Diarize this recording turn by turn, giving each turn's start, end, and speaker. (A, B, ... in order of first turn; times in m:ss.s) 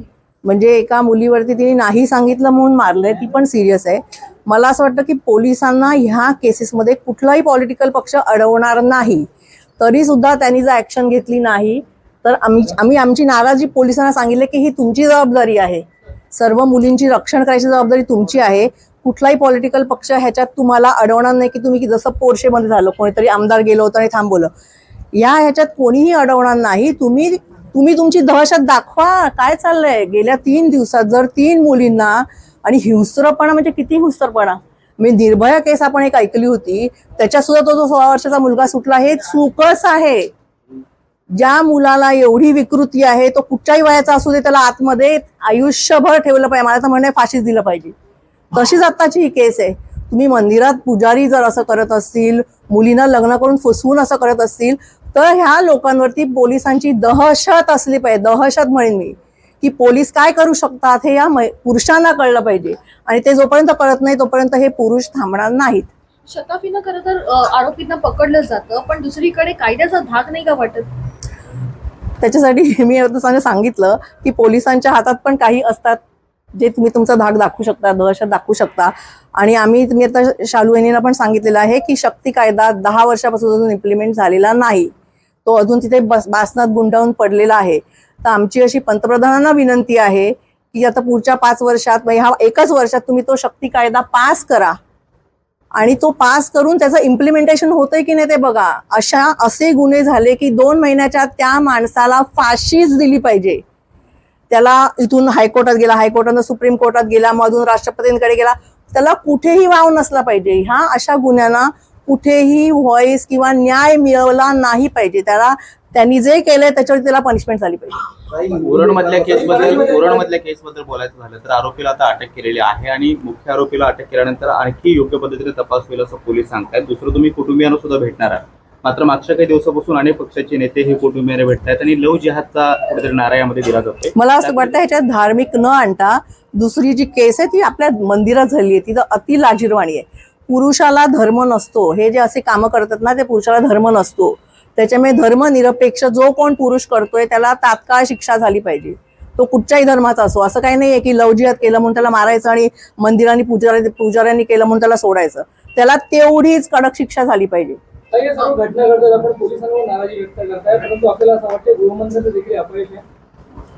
0:00.4-0:09.3 A
0:09.8-0:24.5 A
0:25.1-0:40.3 A
0:41.3-0:47.9 A
0:48.5-1:05.9 A
1:06.3-1:10.9 B
1:12.2-1:16.0 A
1:16.6-1:24.9 A
1:25.4-1:34.8 A
1:35.8-1:43.6 A
1:44.5-1:58.1 A
1:58.4-2:14.7 C
1:59.3-2:00.2 D
2:14.2-2:37.8 A
2:38.1-2:43.0 D